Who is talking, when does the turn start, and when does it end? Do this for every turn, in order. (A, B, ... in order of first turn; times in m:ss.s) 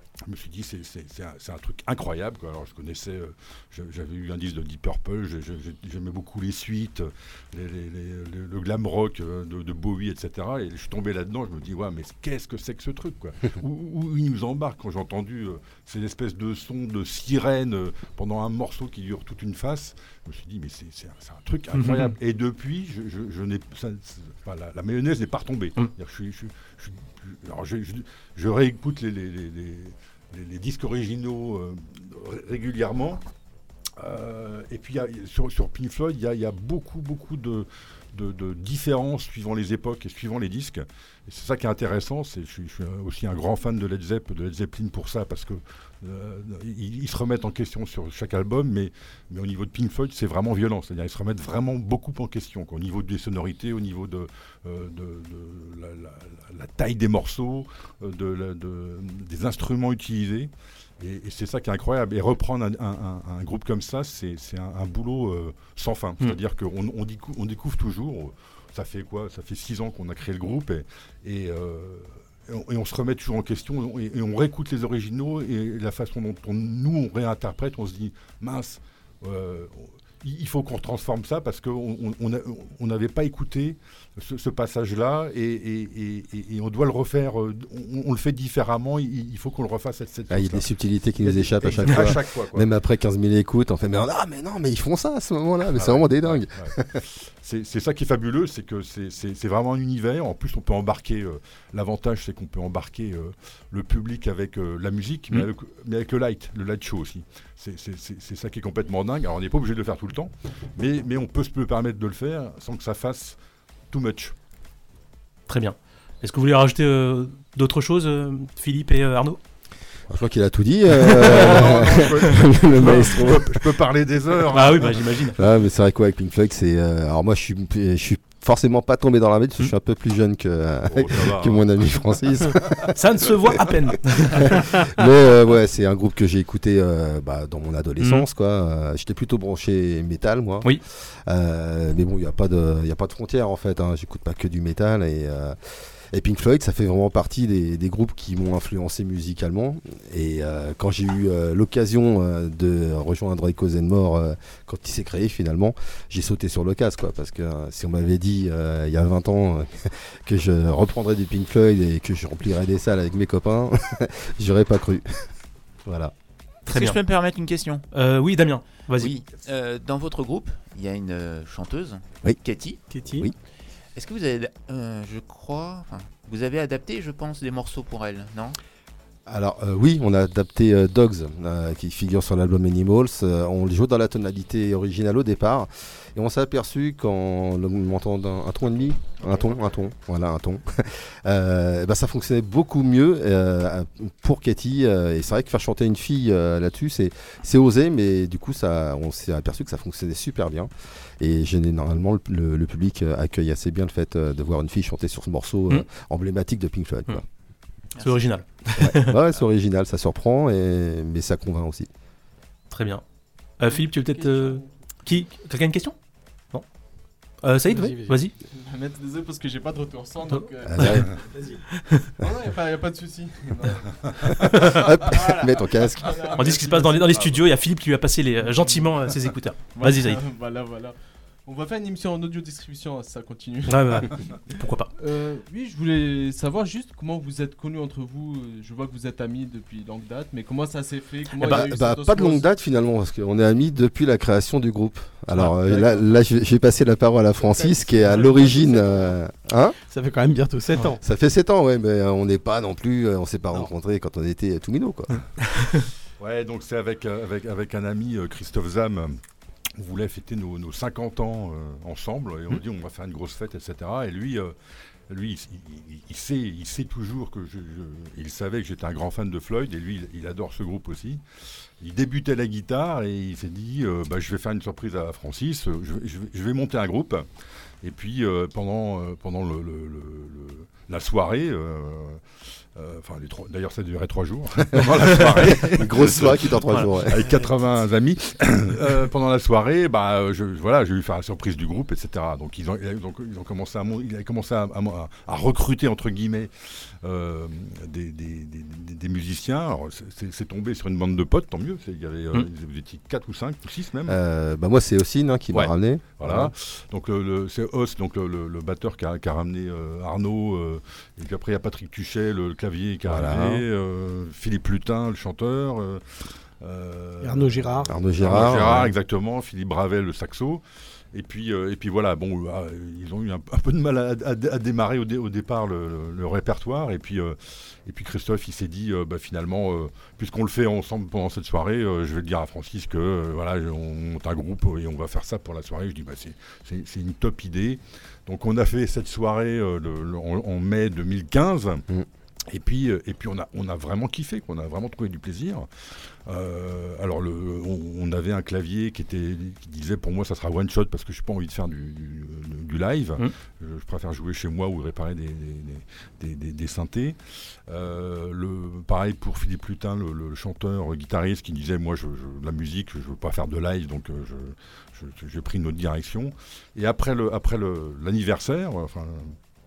0:00.2-0:33.2 A
0:21.7-0:22.2 B
0:34.0-1:30.6 A
1:30.3-1:37.0 C
1:31.2-1:32.7 A
1:35.7-1:53.4 A
1:53.9-1:54.3 A
1:55.5-1:59.4 B
2:00.1-2:03.7 C
2:01.0-2:01.4 B
2:01.2-2:05.2 A
2:04.5-2:05.4 B
2:05.4-2:25.6 C
2:10.9-2:11.7 A
2:13.0-2:14.6 B
2:18.0-2:18.3 B
2:26.1-2:45.1 C
2:45.8-2:46.1 C
2:46.7-2:47.8 D
2:46.7-2:47.0 B
2:47.9-2:49.1 B
2:49.0-2:52.8 D
2:52.9-2:53.3 E
2:54.0-2:58.6 D
2:59.3-3:27.2 C
3:28.0-3:28.2 D
3:28.0-3:29.2 B
3:28.8-3:31.9 C
3:32.7-3:33.0 B
3:33.6-3:36.0 B
3:33.7-3:34.7 F
3:37.4-3:38.3 B
3:37.7-3:38.2 E
3:38.5-3:41.6 F
3:40.3-3:41.1 B
3:40.6-3:41.1 C
3:42.2-3:43.9 F
3:44.4-3:46.3 C
3:44.4-3:44.9 B
3:45.1-3:47.4 F
3:46.4-3:50.2 B
3:49.7-3:51.0 F
3:51.5-3:54.2 F
3:53.7-3:54.9 B
3:55.0-4:02.5 F
4:01.4-4:09.8 C
4:05.6-4:06.1 F
4:07.4-4:09.1 F
4:09.9-4:11.0 E
4:11.0-4:15.2 C
4:15.6-4:15.8 B
4:16.2-4:19.2 A
4:19.8-4:24.6 A
4:25.1-4:31.2 A
4:31.8-4:37.3 A
4:37.8-4:42.2 A
4:42.8-5:04.2 A
4:44.8-4:47.4 C
5:04.1-5:06.5 C
5:05.5-5:16.0 A
5:13.0-5:13.6 C
5:16.6-5:20.6 A
5:17.2-5:17.9 E
5:17.8-5:19.0 C
5:21.1-5:41.8 A
5:42.5-5:45.7 A
5:46.2-6:09.4 A